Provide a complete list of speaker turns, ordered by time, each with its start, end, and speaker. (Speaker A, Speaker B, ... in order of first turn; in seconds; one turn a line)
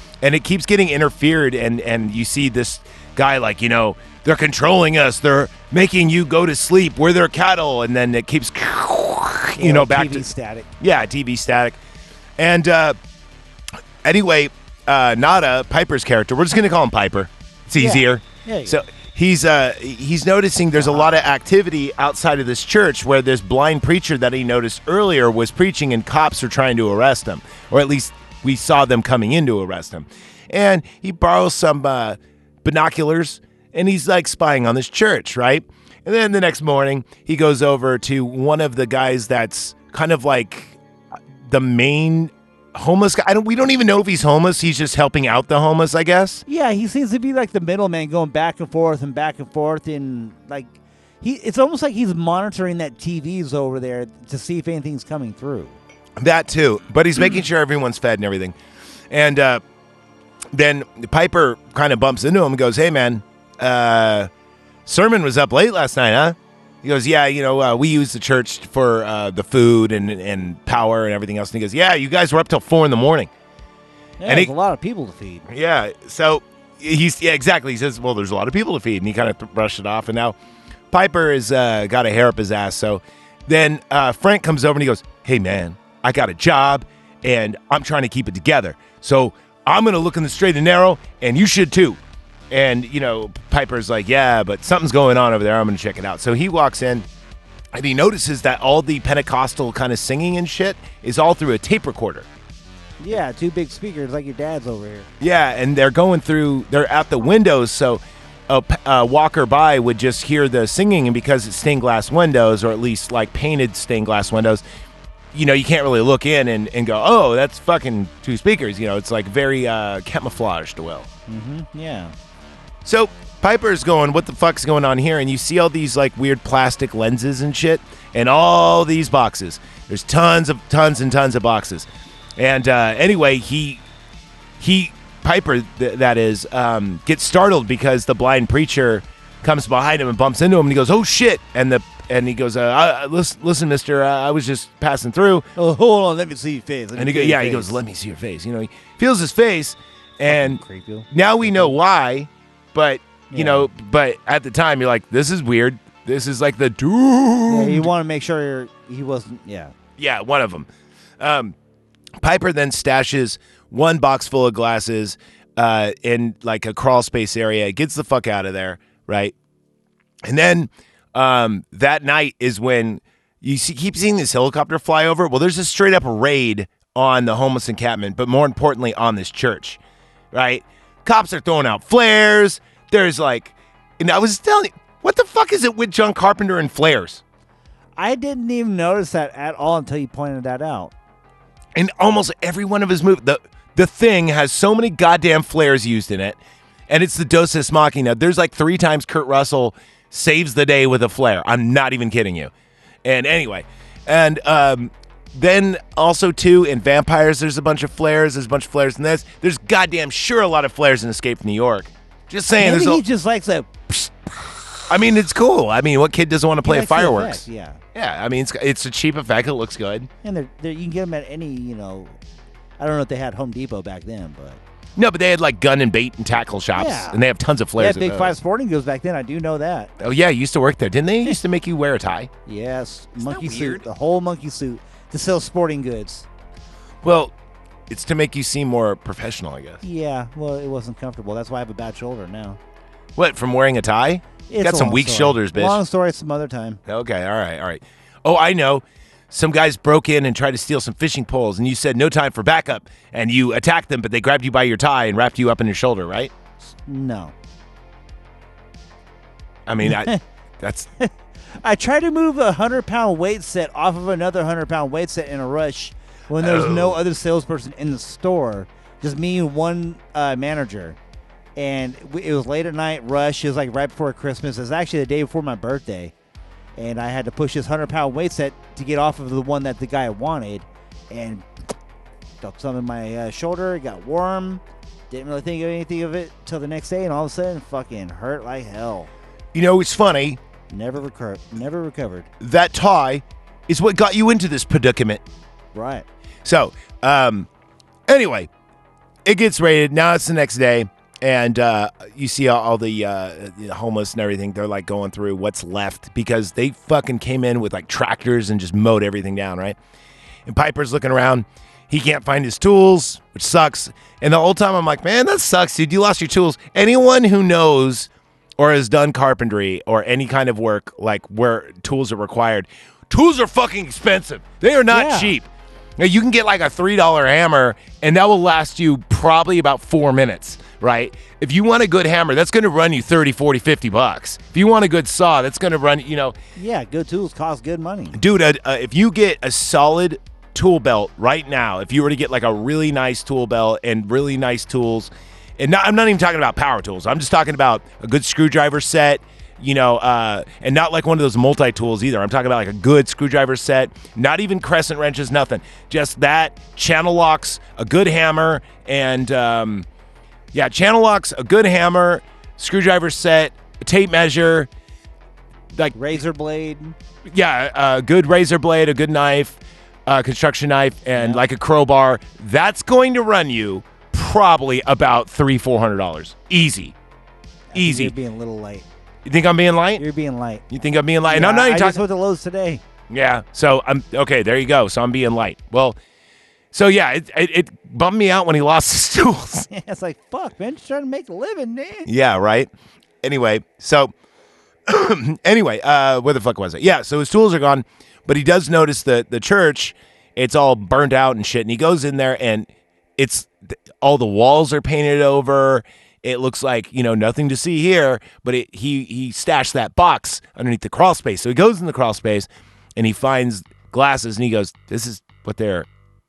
Speaker A: 0.2-10.2
Speaker B: 9.6-10.7
Speaker A: 10.8-11.8
Speaker A: 12.4-13.0
Speaker A: 14.0-40.8
Speaker B: 17.8-18.8
Speaker B: 20.8-21.0
Speaker A: 41.4-46.4
Speaker B: 46.5-55.8
Speaker A: 56.2-58.5
Speaker A: 59.1-59.6
Speaker A: 60.5-64.3
Speaker A: 64.8-73.3
Speaker B: 74.2-75.5
Speaker A: 74.2-74.5
Speaker A: 75.5-80.3
Speaker A: 80.9-92.0
Speaker A: 92.5-97.1
Speaker A: 97.7-102.3
Speaker B: 103.0-105.1
Speaker A: 105.2-114.6
Speaker A: 115.3-121.1
Speaker B: 121.3-122.1
Speaker A: 122.8-133.8
Speaker A: 134.6-145.5
Speaker B: 145.6-147.8
Speaker A: 146.9-157.9
Speaker B: 150.3-151.7
Speaker B: 153.3-153.7
Speaker B: 157.5-159.7
Speaker A: 160.0-160.7
Speaker A: 161.2-161.5
Speaker A: 162.2-169.3
Speaker A: 170.2-179.8
Speaker A: 180.3-187.2
Speaker B: 188.0-190.9
Speaker A: 191.7-202.5
Speaker A: 203.0-213.0
Speaker B: 212.6-214.8
Speaker A: 214.9-220.1
Speaker B: 216.6-217.8
Speaker B: 220.2-222.2
Speaker B: 222.8-224.6
Speaker A: 224.9-228.3
Speaker B: 226.7-227.2
Speaker B: 227.8-229.9
Speaker A: 230.0-232.3
Speaker B: 232.5-236.3
Speaker A: 233.2-233.8
Speaker A: 237.0-237.3
Speaker A: 237.9-239.8
Speaker B: 239.8-242.6
Speaker A: 243.2-245.8
Speaker B: 244.5-246.8
Speaker A: 246.8-256.3
Speaker B: 256.6-257.3
Speaker A: 259.6-260.9
Speaker B: 259.8-260.2
Speaker B: 261.0-271.0
Speaker A: 266.4-267.0
Speaker B: 271.6-276.1
Speaker B: 276.8-281.4
Speaker B: 282.4-289.1
Speaker A: 289.5-290.4
Speaker B: 290.7-292.3
Speaker A: 292.4-295.2
Speaker B: 295.7-296.1
Speaker A: 296.4-297.5
Speaker A: 298.1-298.5
Speaker A: 299.2-309.8
Speaker A: 310.4-336.4
Speaker B: 324.9-325.3
Speaker B: 336.6-338.2
Speaker A: 338.1-359.9
Speaker A: 360.5-364.7
Speaker B: 365.9-366.9
Speaker A: 367.2-376.9
Speaker B: 371.1-371.4
Speaker B: 377.7-378.9
Speaker A: 377.7-378.1
Speaker A: 379.2-380.0
Speaker B: 380.0-380.6
Speaker A: 380.7-382.0
Speaker B: 381.3-382.8
Speaker A: 383.1-386.0
Speaker A: 386.7-389.7
Speaker B: 389.7-392.1
Speaker A: 392.1-392.7
Speaker A: 393.2-394.1
Speaker A: 394.9-415.9